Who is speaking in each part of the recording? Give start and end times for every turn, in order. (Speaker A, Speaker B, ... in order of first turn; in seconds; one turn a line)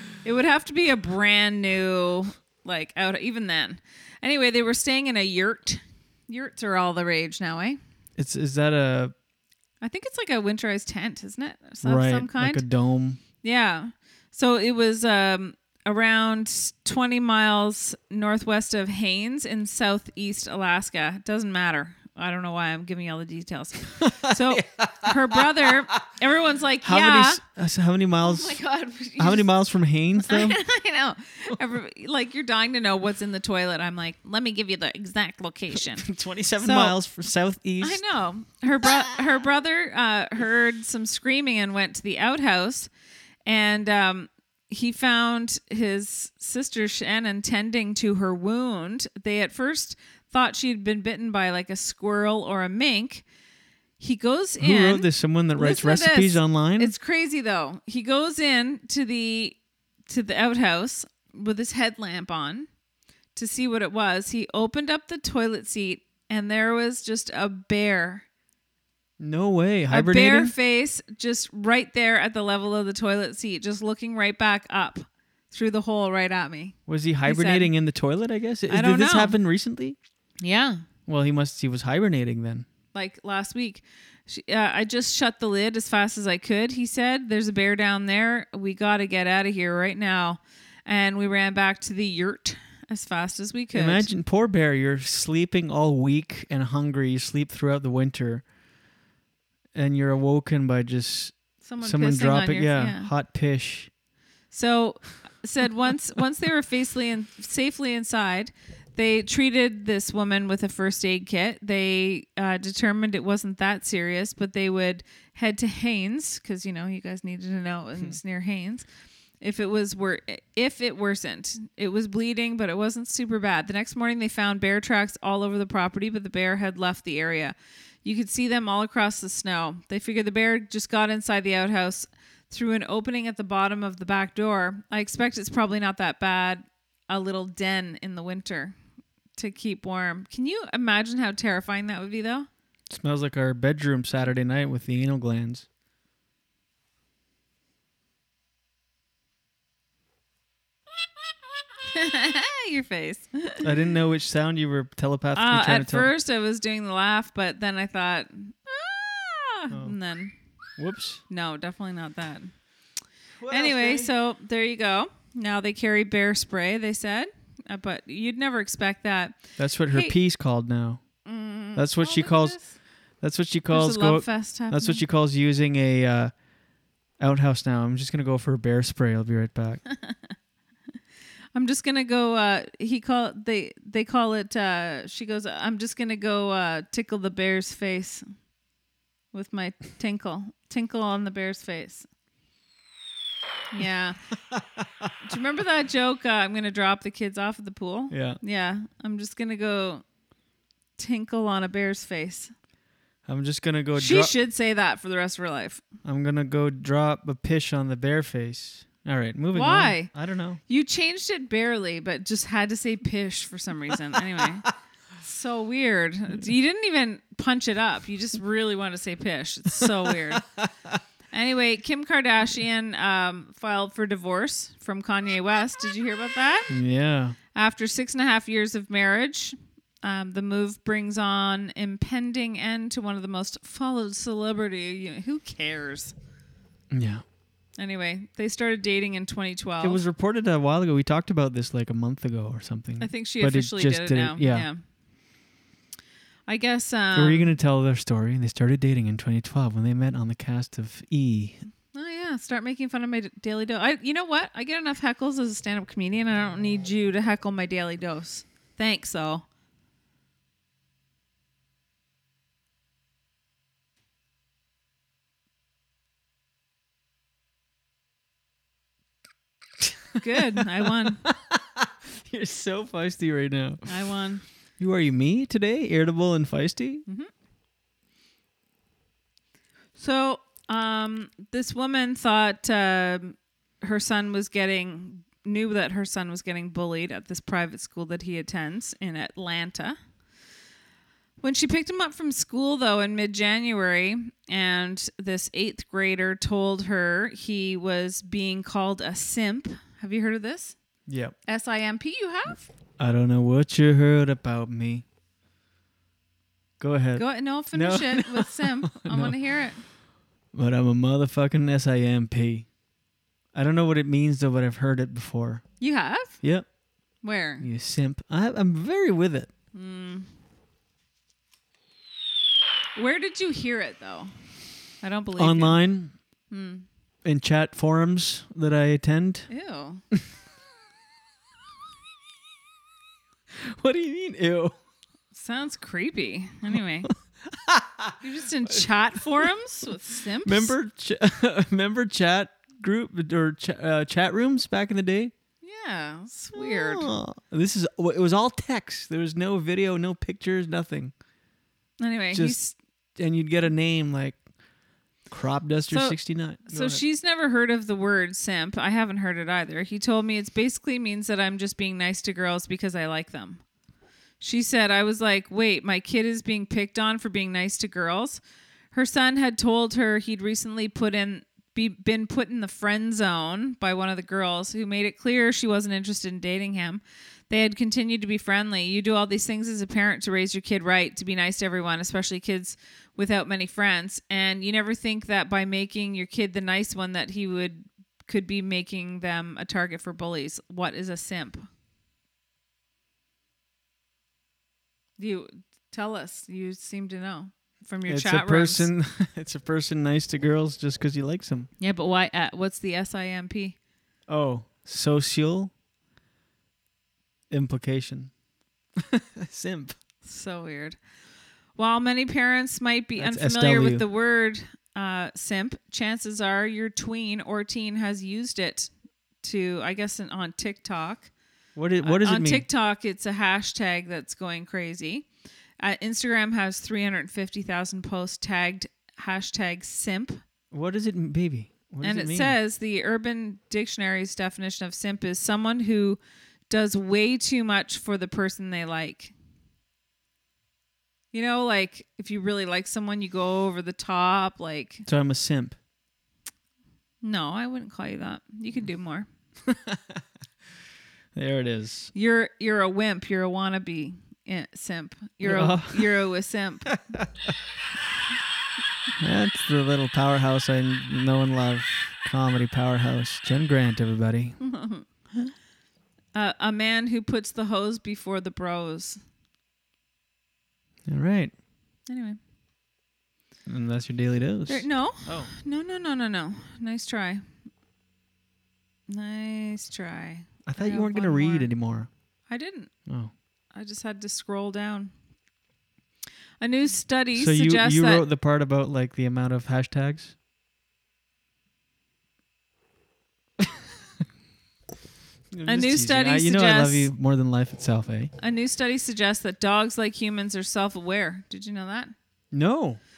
Speaker A: 0.2-7.8
Speaker B: 8.2-9.1
Speaker A: 9.8-12.6
Speaker B: 11.8-13.2
Speaker A: 13.4-27.4
Speaker B: 24.0-25.7
Speaker B: 26.8-28.6
Speaker A: 28.2-29.5
Speaker B: 29.2-30.6
Speaker A: 30.2-36.1
Speaker B: 35.8-38.0
Speaker A: 36.6-37.0
Speaker A: 37.8-42.9
Speaker A: 43.5-53.2
Speaker A: 54.0-59.5
Speaker B: 54.6-56.9
Speaker A: 60.1-62.7
Speaker A: 63.3-68.2
Speaker B: 69.2-70.5
Speaker A: 69.9-77.7
Speaker B: 76.9-80.0
Speaker A: 78.7-79.3
Speaker A: 80.4-80.8
Speaker B: 81.1-82.7
Speaker A: 82.9-94.1
Speaker B: 93.7-98.4
Speaker B: 99.7-103.9
Speaker A: 101.6-103.1
Speaker A: 104.5-118.8
Speaker A: 119.4-138.7
Speaker A: 139.4-142.5
Speaker B: 142.9-145.7
Speaker A: 151.9-153.7
Speaker B: 153.6-156.1
Speaker A: 155.3-160.3
Speaker B: 159.7-159.9
Speaker B: 160.8-161.2
Speaker A: 161.3-162.5
Speaker B: 163.4-164.1
Speaker A: 163.5-170.1
Speaker B: 169.6-171.0
Speaker A: 171.2-172.8
Speaker B: 171.8-172.6
Speaker B: 173.2-176.3
Speaker A: 173.7-175.0
Speaker B: 177.2-179.8
Speaker A: 180.0-180.3
Speaker A: 181.5-188.2
Speaker A: 189.3-192.1
Speaker A: 193.7-194.2
Speaker B: 194.5-195.1
Speaker A: 195.2-200.0
Speaker B: 198.1-198.4
Speaker A: 201.0-202.5
Speaker B: 203.3-204.3
Speaker A: 203.9-205.8
Speaker B: 206.0-210.6
Speaker A: 209.5-210.1
Speaker A: 210.7-214.7
Speaker A: 215.2-220.4
Speaker B: 220.4-220.6
Speaker A: 221.3-226.7
Speaker B: 226.7-227.3
Speaker A: 227.5-236.1
Speaker B: 236.9-237.2
Speaker A: 237.8-240.0
Speaker B: 239.8-244.7
Speaker A: 243.0-244.8
Speaker A: 246.5-247.5
Speaker B: 247.1-251.6
Speaker A: 251.9-259.4
Speaker A: 270.2-271.2
Speaker B: 271.2-273.9
Speaker A: 273.9-274.4
Speaker B: 274.8-277.0
Speaker A: 280.0-290.0
Speaker A: 291.4-300.7
Speaker B: 301.1-301.3
Speaker A: 301.5-302.7
Speaker B: 303.0-305.0
Speaker B: 306.8-309.3
Speaker A: 307.1-309.8
Speaker B: 310.5-312.6
Speaker B: 313.5-315.6
Speaker A: 315.8-316.4
Speaker A: 317.2-317.6
Speaker B: 317.6-319.5
Speaker A: 319.7-320.3
Speaker A: 322.9-324.3
Speaker A: 325.0-325.8
Speaker B: 325.4-326.1
Speaker A: 326.5-326.9
Speaker B: 327.2-329.5
Speaker A: 329.5-330.0
Speaker B: 333.6-334.7
Speaker A: 335.3-337.1
Speaker B: 337.5-338.1
Speaker A: 338.2-340.7
Speaker B: 340.4-345.3
Speaker A: 345.6-347.1
Speaker B: 346.5-351.1
Speaker A: 352.0-352.8
Speaker B: 353.2-354.4
Speaker B: 355.3-357.0
Speaker A: 355.9-363.6
Speaker A: 364.4-368.4
Speaker A: 368.9-391.6
Speaker A: 395.2-398.9
Speaker B: 398.1-401.7
Speaker A: 401.8-403.7
Speaker B: 404.3-405.7
Speaker B: 407.5-408.3
Speaker B: 409.0-409.9
Speaker A: 410.2-411.0
Speaker A: 411.8-418.9
Speaker B: 413.2-414.0
Speaker A: 419.4-421.3
Speaker B: 421.8-422.6
Speaker A: 422.0-425.2
Speaker A: 425.8-430.4
Speaker B: 430.7-432.5
Speaker A: 432.0-439.3
Speaker A: 441.3-445.0
Speaker B: 445.1-445.8
Speaker A: 447.2-449.3
Speaker B: 449.7-450.2
Speaker B: 451.3-452.1
Speaker A: 452.1-456.9
Speaker B: 455.4-456.1
Speaker B: 456.9-457.3
Speaker B: 459.2-464.6
Speaker A: 464.6-465.0
Speaker A: 466.3-469.2
Speaker B: 471.1-471.5
Speaker A: 472.1-472.4
Speaker B: 473.7-475.5
Speaker A: 474.7-477.4
Speaker A: 479.1-481.7
Speaker B: 480.6-482.1
Speaker A: 482.5-482.9
Speaker B: 483.1-483.3
Speaker A: 483.7-485.1
Speaker A: 486.6-488.2
Speaker B: 487.3-490.3
Speaker B: 495.5-498.3
Speaker A: 495.7-497.1
Speaker A: 498.4-502.1
Speaker B: 502.5-503.0